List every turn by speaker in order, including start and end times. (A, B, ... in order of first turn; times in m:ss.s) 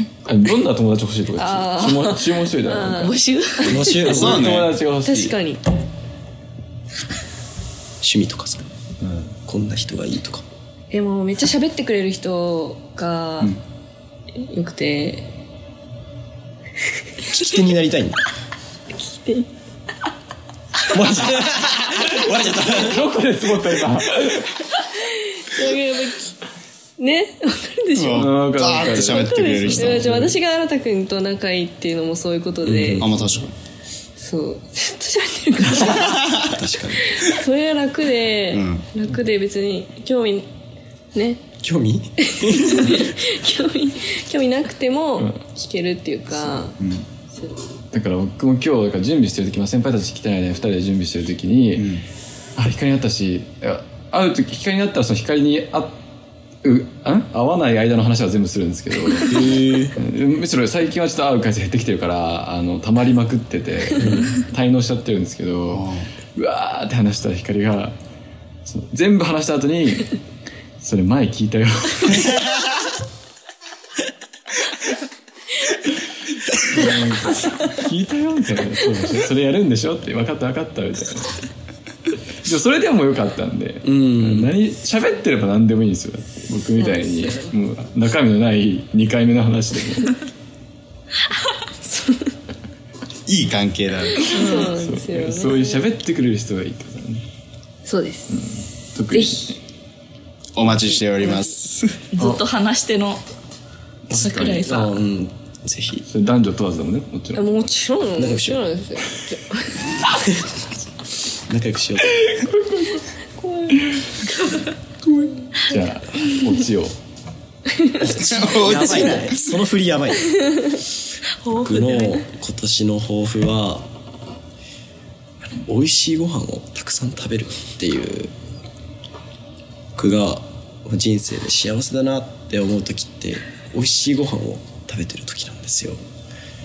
0:00.2-0:03.1 A
0:01.4-0:04.1 B
0:03.0-0:03.9 C
0:03.6-0:04.6 D
0:03.9-0:05.4 A
0:04.1-0:04.8 E
0:05.0-0:05.7 B
0:08.0-0:08.6 D
0:09.0-0:09.4 A
0:09.5-0:10.4 D
0:10.9-0:13.6 B
0:14.4-0:15.3 B
0:17.3-0:18.2 D
0:19.0-0:19.5 B
0:20.9-0:23.0 D
0:22.2-0:24.6 A
0:25.0-0:26.4 B
0:27.0-0:33.1 B
0:27.9-0:30.3 E
0:28.1-0:30.4 A
0:32.6-0:33.2 D
0:33.0-0:33.5 E
0:34.2-0:36.4 B
0:35.7-0:37.2 D
0:37.0-0:40.5 B
0:38.5-0:38.9 E
0:41.1-0:41.4 B
0:41.6-0:43.1 D
0:42.3-0:46.8 B
0:46.3-0:46.6 A
0:46.8-0:47.1 E
0:47.9-0:51.9 A
0:51.8-0:52.0 E
0:52.6-0:56.0 A
0:56.6-1:08.0 A
0:59.3-1:00.0 D
1:04.0-1:04.3 D
1:05.7-1:06.1 E
1:08.6-1:10.1 A
1:10.8-1:12.5 A
1:16.6-1:21.4 A
1:22.4-1:30.2 A
1:23.8-1:24.5 D
1:26.8-1:27.5 B
1:31.8-1:32.3 B
1:33.3-1:34.4 E
1:34.2-1:35.9 B
1:34.4-1:34.7 C
1:34.6-1:37.2 A
1:37.8-1:38.4 B
1:38.3-1:39.6 A
1:39.1-1:39.5 B
1:40.6-1:42.0 E
1:41.2-1:41.5 B
1:42.1-1:43.2 C
1:44.1-1:46.1 D
1:44.1-1:45.0 C
1:44.1-1:44.6 A
1:46.1-1:47.5 A
1:47.4-1:49.8 B
1:48.2-1:48.7 D
1:51.5-1:52.3 D
1:52.2-1:53.0 A
1:53.4-1:53.9 B
1:55.7-1:57.0 A
1:57.7-1:58.2 B
1:58.0-2:00.8 D
1:58.2-1:59.5 E
2:01.4-2:02.2 C
2:01.6-2:03.8 D
2:05.6-2:08.3 D
2:10.0-2:16.0 D